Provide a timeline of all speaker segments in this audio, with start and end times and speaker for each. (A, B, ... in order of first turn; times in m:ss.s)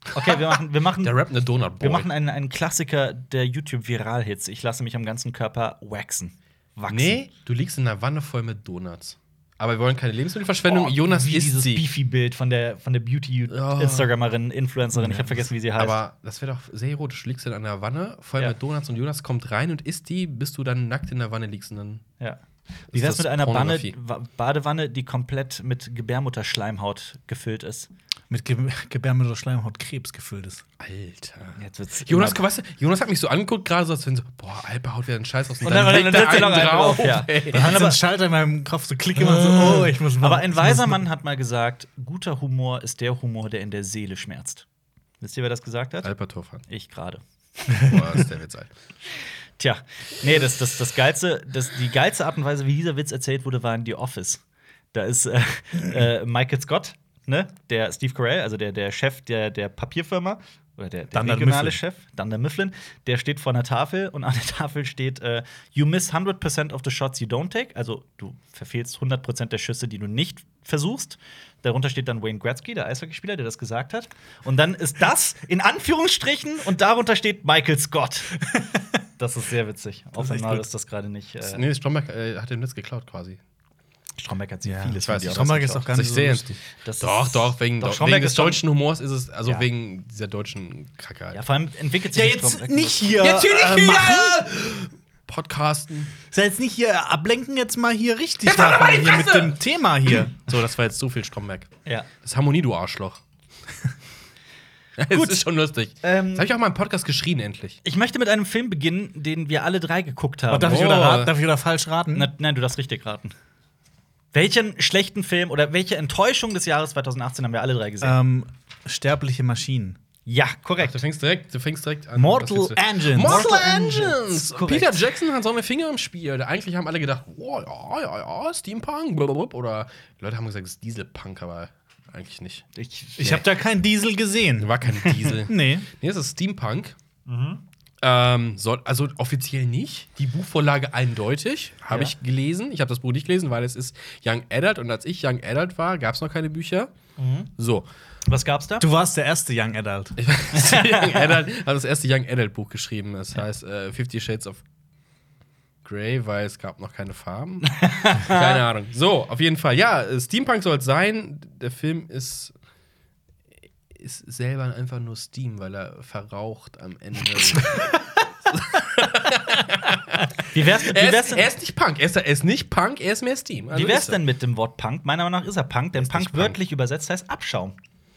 0:00.1-0:01.2 A
0:00.2-0:02.1 B
0:01.8-0:07.2 A
0:06.9-0:11.8 B
0:10.6-0:16.0 A
0:13.5-0:14.1 B
0:15.0-0:22.0 B
0:22.9-0:24.0 B
0:22.9-0:27.9 A
0:28.3-0:30.6 C
0:30.8-0:37.8 B
0:31.6-0:32.4 A
0:35.6-0:38.0 A
0:37.5-0:41.0 C
0:39.2-0:39.9 B
0:39.3-0:44.6 A
0:45.2-0:46.1 A
0:46.0-0:46.6 B
0:46.7-0:48.0 A
0:47.7-0:48.0 C
0:47.8-0:48.7 B
0:49.6-0:54.4 A
0:54.9-1:18.6 A
1:01.1-1:01.8 C
1:19.2-1:21.6 A
1:20.3-1:20.6 C
1:21.4-1:23.4 B
1:24.2-1:25.9 A
1:24.6-1:26.5 C
1:25.0-1:31.4 B
1:26.8-1:28.6 A
1:31.3-1:33.2 A
1:32.1-1:34.4 C
1:33.1-1:36.2 B
1:36.3-1:40.5 C
1:38.4-1:41.7 B
1:42.2-1:43.2 B
1:45.0-1:47.8 B
1:45.1-1:45.4 A
1:46.0-1:46.5 A
1:47.8-1:50.9 A
1:50.5-1:52.3 C
1:50.6-1:51.3 B
1:52.1-1:53.3 A
1:54.3-1:58.2 A
1:58.0-2:00.0 C
2:00.2-2:01.0 A
2:00.8-2:12.6 B
2:02.2-2:03.6 C
2:03.2-2:05.0 A
2:12.7-2:13.4 A
2:13.2-2:15.9 C
2:14.6-2:17.0 B
2:17.3-2:17.6 A
2:18.0-2:26.9 B
2:27.2-2:27.5 A
2:27.6-2:27.8 B
2:28.3-2:28.8 A
2:28.8-2:30.2 C
2:30.2-2:34.6 B
2:30.5-2:31.3 A
2:35.8-2:42.5 B
2:37.8-2:38.6 A
2:43.9-2:54.2 B
2:47.5-2:48.0 A
2:50.5-2:51.5 A
2:53.7-2:57.8 A
2:55.9-2:56.6 B